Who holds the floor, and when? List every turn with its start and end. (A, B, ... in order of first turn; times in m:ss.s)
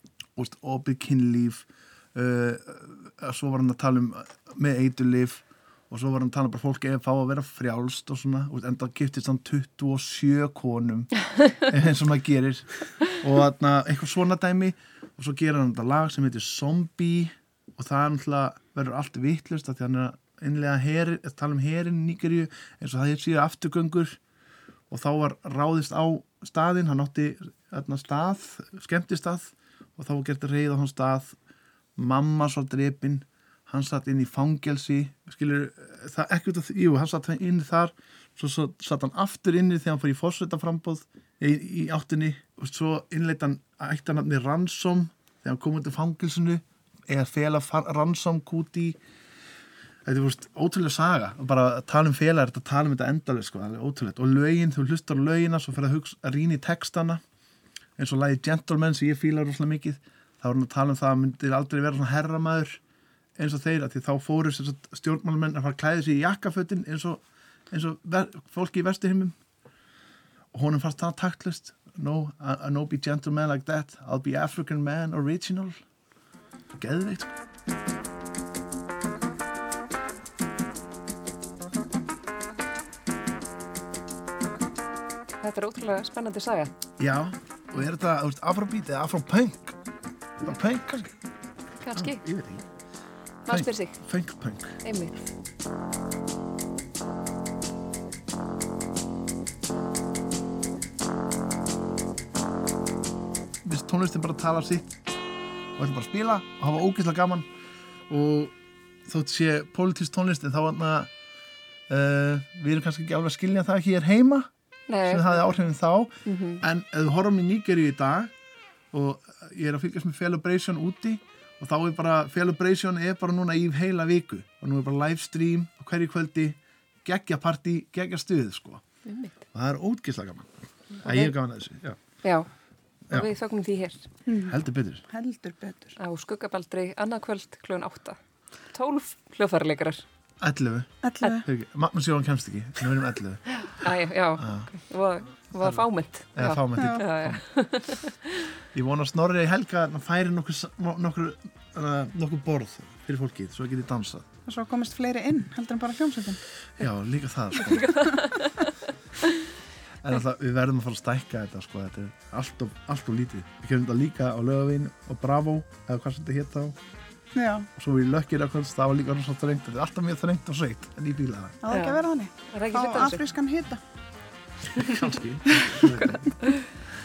0:00.4-0:24.2 A
0:24.9-0:31.4 A
0:32.0-0:49.0 A
0:50.0-0:57.2 A
0:58.0-1:02.8 A
1:03.4-1:09.3 A
1:10.5-1:15.8 A
1:16.8-1:17.4 A
1:25.4-1:26.7 B
1:27.0-1:29.8 A
1:30.4-1:31.1 A
1:31.8-1:32.2 B
1:31.9-1:32.6 A
1:33.4-1:34.0 B
1:33.5-1:34.7 A
1:34.8-1:35.2 B
1:43.6-1:44.9 A
1:45.8-1:47.4 A
1:48.1-1:48.5 A
1:49.0-1:51.1 A
1:51.9-1:54.5 A
1:54.9-1:55.4 B
1:55.0-1:58.3 A
1:56.2-1:56.6 B
1:58.9-2:08.8 A
2:09.0-2:09.3 B
2:09.5-2:10.5 A
2:11.0-2:12.0 A
2:11.0-2:11.3 B
2:12.2-2:12.5 B
2:13.1-2:14.0 B
2:14.3-2:14.6 C
2:14.5-2:15.0 A
2:15.1-2:16.0 C
2:16.0-2:18.2 B
2:18.7-2:20.0 B
2:20.4-2:23.9 A
2:21.0-2:21.4 C
2:23.6-2:28.4 B
2:24.4-2:24.7 A
2:25.6-2:27.4 A
2:26.8-2:27.1 C
2:28.7-2:34.3 A
2:34.4-2:36.4 C
2:36.8-2:38.1 A
2:37.6-2:38.5 B
2:40.0-2:46.8 A
2:47.3-2:47.7 C
2:47.8-2:51.6 A
2:51.6-2:53.8 C
2:51.7-2:53.2 B
2:54.8-2:56.3 A
2:55.8-2:56.7 B